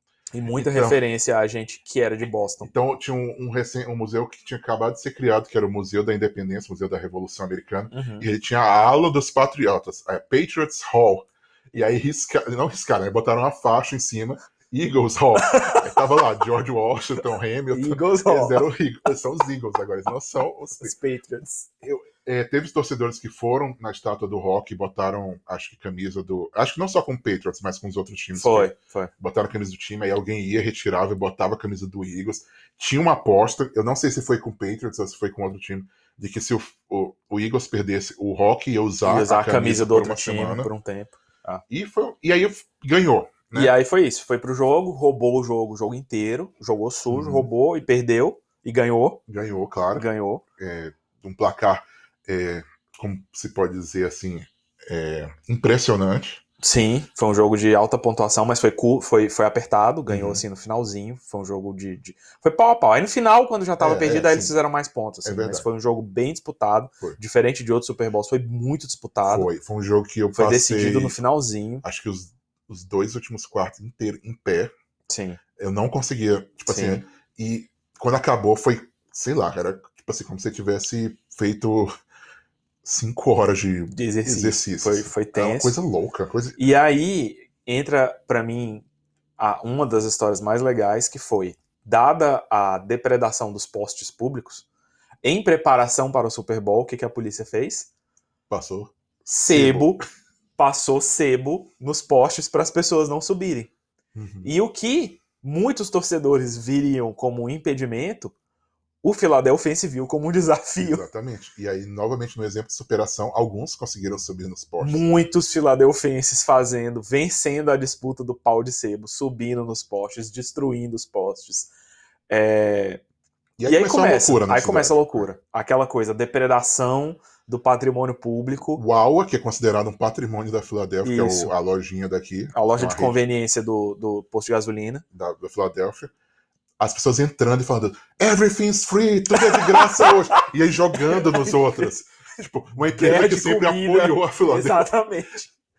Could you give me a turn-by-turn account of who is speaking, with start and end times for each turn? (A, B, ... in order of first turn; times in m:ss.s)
0:00.3-0:02.7 A
0:00.5-0:01.0 B
0:02.6-0:20.9 B
0:07.9-0:08.3 A
0:15.4-0:16.0 A
0:17.7-0:18.6 A
0:20.8-0:21.7 A
0:21.8-0:40.7 B
0:28.4-0:29.1 A
0:39.0-0:41.6 A
0:41.7-0:43.8 B
0:43.5-0:49.2 A
0:47.1-0:47.5 B
0:49.3-0:50.1 B
0:49.9-0:50.4 A
0:50.6-0:56.4 B
0:56.6-1:09.5 A
1:00.1-1:00.4 B
1:03.8-1:04.5 B
1:05.2-1:05.6 B
1:09.2-1:11.2 B
1:10.4-1:11.8 A
1:11.8-1:14.7 B
1:15.1-1:15.4 A
1:15.6-1:21.9 B
1:16.7-1:17.0 A
1:22.8-1:26.6 B
1:23.9-1:25.8 A
1:26.6-1:28.8 A
1:29.4-1:34.7 A
1:35.2-1:37.9 A
1:38.5-1:40.0 B
1:39.3-1:40.0 A
1:40.6-1:43.7 A
1:44.1-1:44.5 B
1:44.4-1:48.3 A
1:49.0-1:51.0 A
1:50.8-1:55.0 B
1:54.8-2:01.7 A
2:02.3-2:03.0 A
2:03.6-2:05.3 B
2:03.7-2:08.8 A
2:08.8-2:13.2 B
2:11.0-2:11.5 A
2:12.5-2:15.0 A
2:15.1-2:16.1 B
2:16.8-2:24.9 B
2:19.4-2:20.5 A
2:21.0-2:21.9 A
2:22.8-2:25.5 A